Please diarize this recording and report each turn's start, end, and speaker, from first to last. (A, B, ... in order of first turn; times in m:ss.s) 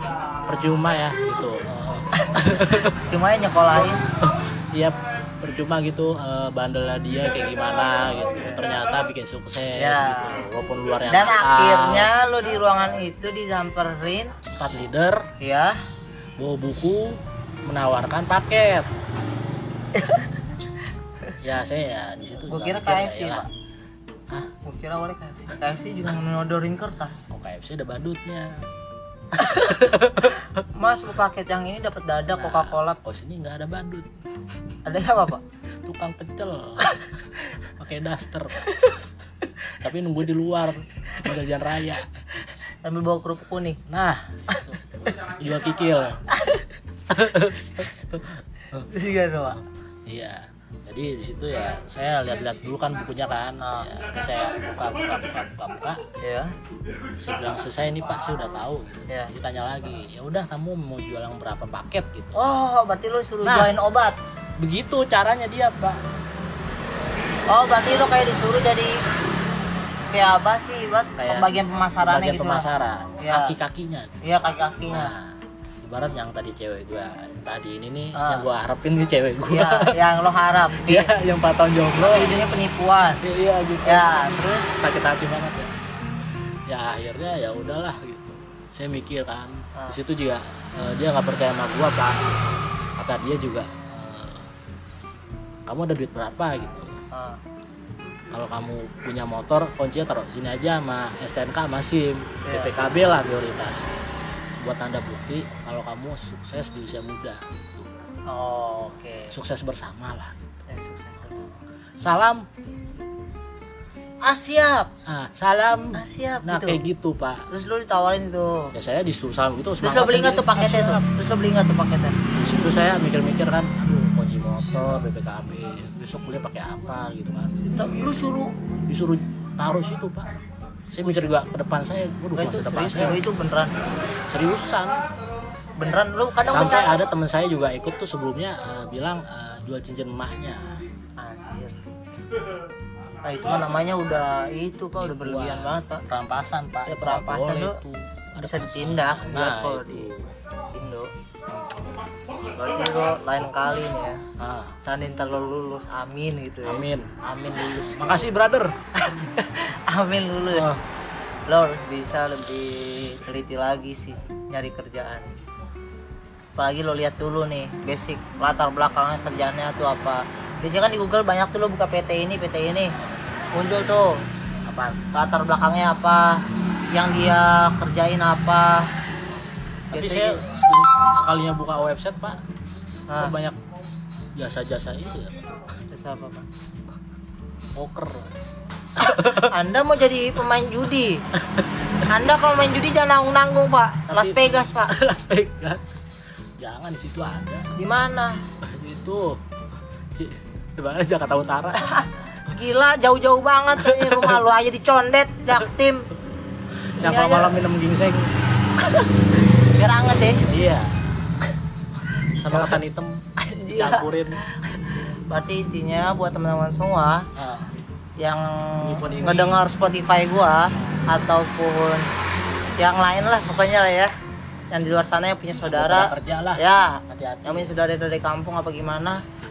0:00.5-0:02.9 A
0:03.0-0:04.0 B
0:04.2-0:12.1 A
0:09.8-0:10.4 B
0:11.1-0:14.3 B
0:14.6-0:15.2 A
0:15.4-0:15.8 B
0:16.4-0:18.9 A
0:21.4-0:23.4 A
0:22.5-0:23.5 B
0:24.6-0:27.3 B
0:27.3-0:28.6 A
0:29.3-0:30.4 A
0:30.7-0:33.0 B
0:32.3-0:34.1 A
0:34.8-0:35.4 B
0:35.8-0:36.9 A
0:37.8-0:38.7 A
0:39.8-0:42.0 A
0:42.8-0:43.8 B
0:43.9-0:46.2 A
0:46.4-0:46.6 B
0:47.1-0:48.8 A
0:48.9-0:49.6 B
0:50.1-0:56.0 A
0:53.6-0:53.9 B
0:56.2-0:56.5 B
0:57.2-1:02.4 A
1:02.3-1:04.2 B
1:03.4-1:03.7 A
1:04.6-1:06.0 A
1:07.5-1:09.0 B
1:10.1-1:12.7 B
1:11.2-1:14.2 A
1:13.2-1:13.5 B
1:14.2-1:15.1 B
1:14.9-1:20.0 A
1:18.1-1:18.4 B
1:19.5-1:21.1 B
1:20.8-1:22.3 A
1:22.1-1:23.2 B
1:23.2-1:25.7 A
1:23.8-1:24.6 B
1:26.7-1:34.5 A
1:35.6-1:37.0 A
1:37.1-1:37.4 B
1:38.3-1:43.9 A
1:42.4-1:42.7 B
1:44.6-1:47.9 A
1:48.3-1:49.3 B
1:49.3-1:50.6 A
1:50.7-1:51.3 B
1:52.0-1:52.4 A
1:54.2-1:54.9 B
1:55.0-1:57.4 A
1:55.9-1:56.8 B
1:57.5-1:58.7 B
1:58.7-2:01.0 A
1:59.8-2:02.2 B
2:02.3-2:07.6 A
2:07.7-2:08.5 B
2:08.9-2:10.3 A
2:10.9-2:13.2 A
2:11.0-2:11.3 B
2:12.3-2:13.7 B
2:14.3-2:15.0 A
2:15.8-2:17.0 B
2:16.5-2:20.7 A
2:21.2-2:21.7 B
2:23.2-2:26.0 B
2:24.9-2:30.3 A
2:26.8-2:27.8 B
2:28.4-2:30.1 B
2:30.7-2:31.1 B
2:31.5-2:32.1 A
2:32.5-2:34.2 B
2:34.4-2:34.7 A
2:34.8-2:38.3 B
2:36.6-2:37.1 A
2:37.9-2:38.8 A
2:39.0-2:40.7 B
2:40.5-2:40.8 A
2:41.5-2:45.3 B
2:46.6-2:52.9 B
2:53.5-2:54.2 B
2:54.6-2:55.0 A
2:55.1-2:56.4 B
2:56.9-2:58.9 B
2:59.9-3:00.4 B
2:59.9-3:02.4 A
3:03.1-3:03.3 B
3:03.2-3:03.6 A
3:04.4-3:05.4 A
3:05.9-3:06.4 B
3:07.7-3:08.2 A
3:09.0-3:09.5 A
3:09.5-3:11.2 B
3:12.1-3:14.9 B
3:14.1-3:15.8 A
3:16.6-3:17.7 A
3:17.8-3:18.4 B
3:18.6-3:19.4 A
3:20.1-3:21.9 A
3:21.9-3:26.0 B
3:23.8-3:24.4 A
3:27.0-3:28.3 A
3:27.0-3:27.6 B
3:29.7-3:30.4 B
3:30.4-3:31.0 A
3:32.4-3:34.4 A
3:32.5-3:32.8 B
3:33.4-3:34.1 B
3:34.7-3:37.3 B
3:37.4-3:37.7 A
3:38.2-3:42.1 B
3:38.8-3:39.6 A
3:40.8-3:41.0 A
3:42.8-3:44.1 B
3:44.7-3:49.2 B
3:45.6-3:47.8 A